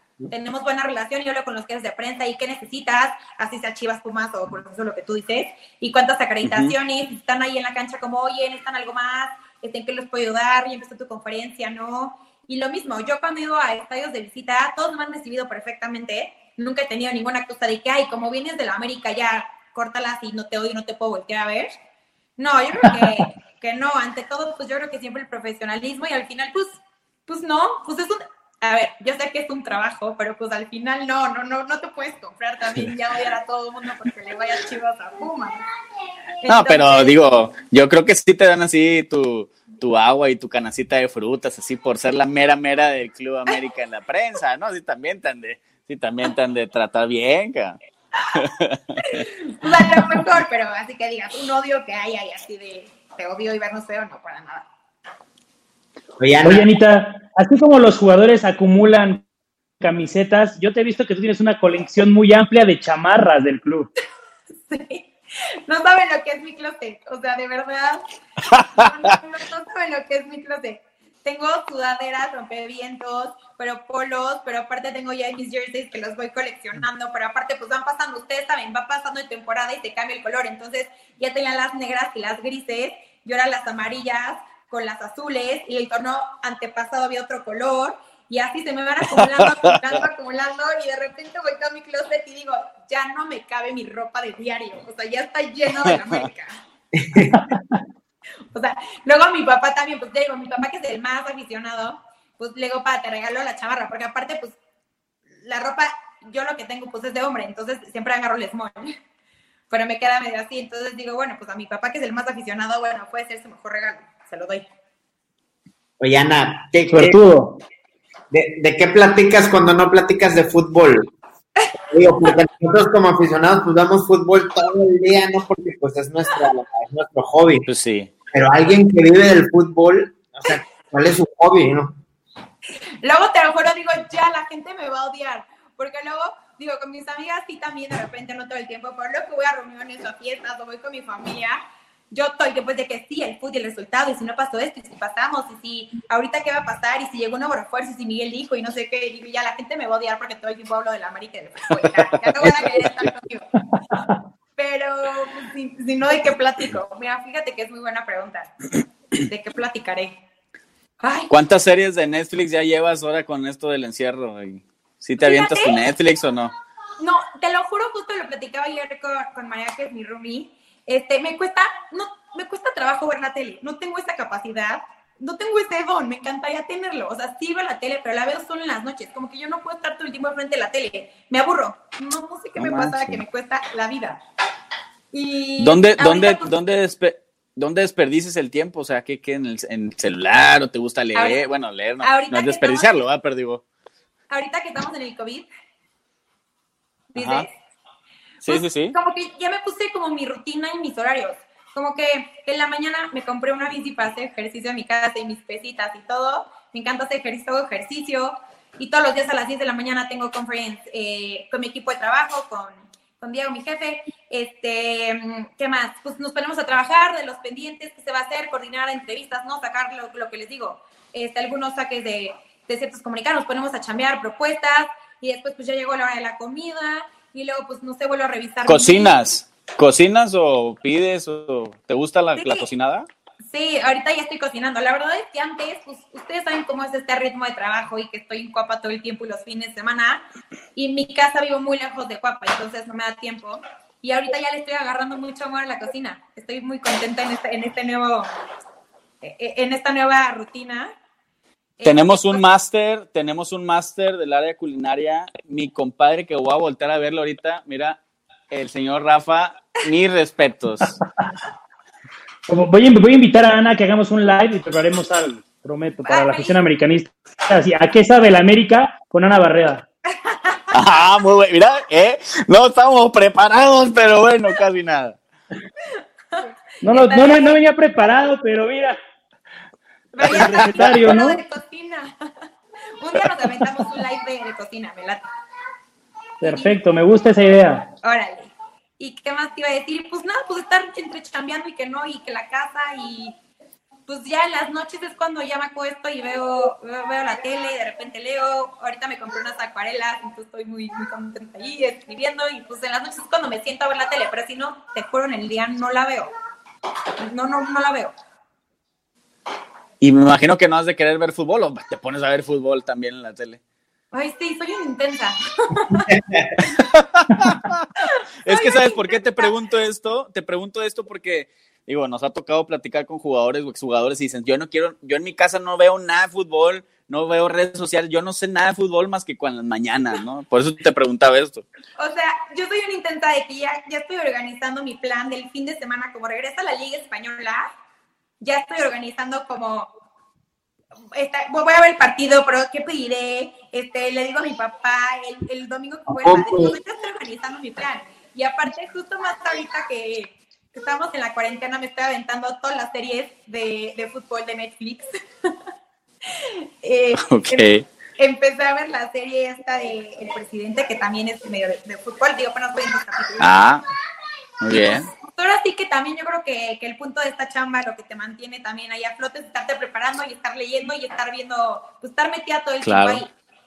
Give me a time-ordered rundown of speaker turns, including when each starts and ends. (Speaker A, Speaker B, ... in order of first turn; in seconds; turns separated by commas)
Speaker A: 0.3-21.7, Speaker B: 6.4-6.7, Speaker A: 22.4-35.6, Speaker C: 22.9-23.2, Speaker A: 36.4-37.2, Speaker B: 36.5-47.8, Speaker B: 48.3-49.3, Speaker A: 49.0-54.7, Speaker D: 56.2-56.7, Speaker C: 56.4-59.2, Speaker C: 59.8-63.9, Speaker A: 64.7-65.1, Speaker A: 65.7-68.0, Speaker B: 68.5-69.1, Speaker A: 68.6-96.6, Speaker B: 89.2-89.9, Speaker B: 95.9-96.2, Speaker D: 96.9-97.4, Speaker A: 98.5-104.6, Speaker A: 105.4-109.0, Speaker A: 109.7-114.7, Speaker D: 116.0-117.2, Speaker C: 116.9-117.6, Speaker D: 118.3-121.1, Speaker D: 121.9-127.7, Speaker B: 127.7-128.1, Speaker D: 128.3-132.0, Speaker A: 133.0-153.5, Speaker B: 152.3-152.9, Speaker C: 153.8-154.1, Speaker A: 154.6-158.5, Speaker A: 159.1-160.2, Speaker A: 161.0-161.3, Speaker B: 161.3-166.5, Speaker A: 165.2-165.8, Speaker A: 167.0-184.2, Speaker B: 182.6-183.2, Speaker A: 185.1-186.5, Speaker B: 185.6-193.6, Speaker A: 192.0-193.0, Speaker A: 194.3-195.5, Speaker A: 197.1-197.5, Speaker B: 197.2-197.5, Speaker B: 198.4-199.0, Speaker A: 198.5-229.1, Speaker B: 228.7-233.1, Speaker A: 232.4-232.7, Speaker A: 233.5-240.2, Speaker A: 240.8-248.3, Speaker A: 249.2-250.9, Speaker A: 251.8-252.4, Speaker B: 251.8-258.0, Speaker B: 258.5-261.0, Speaker C: 262.5-269.9, Speaker A: 266.1-266.6, Speaker A: 270.1-270.7, Speaker B: 270.7-275.2, Speaker A: 275.9-277.6, Speaker C: 276.8-279.0, Speaker A: 280.1-282.1, Speaker B: 280.2-281.1, Speaker C: 280.2-281.4, Speaker A: 283.0-285.3, Speaker A: 286.4-286.8, Speaker C: 286.4-287.9, Speaker A: 288.0-293.4, Speaker A: 294.1-306.3, Speaker A: 307.2-308.1, Speaker B: 310.0-313.6, Speaker A: 314.1-316.1, Speaker D: 316.1-316.6, Speaker B: 316.8-317.9, Speaker A: 318.0-319.5, Speaker B: 318.4-331.6, Speaker A: 332.0-337.7, Speaker A: 338.4-339.9, Speaker A: 341.1-355.5, Speaker D: 346.1-346.8, Speaker A: 356.3-357.7, Speaker B: 357.2-357.9, Speaker A: 358.2-363.5, Speaker B: 363.4-363.8, Speaker B: 364.6-365.1, Speaker A: 364.7-373.3, Speaker B: 372.8-373.2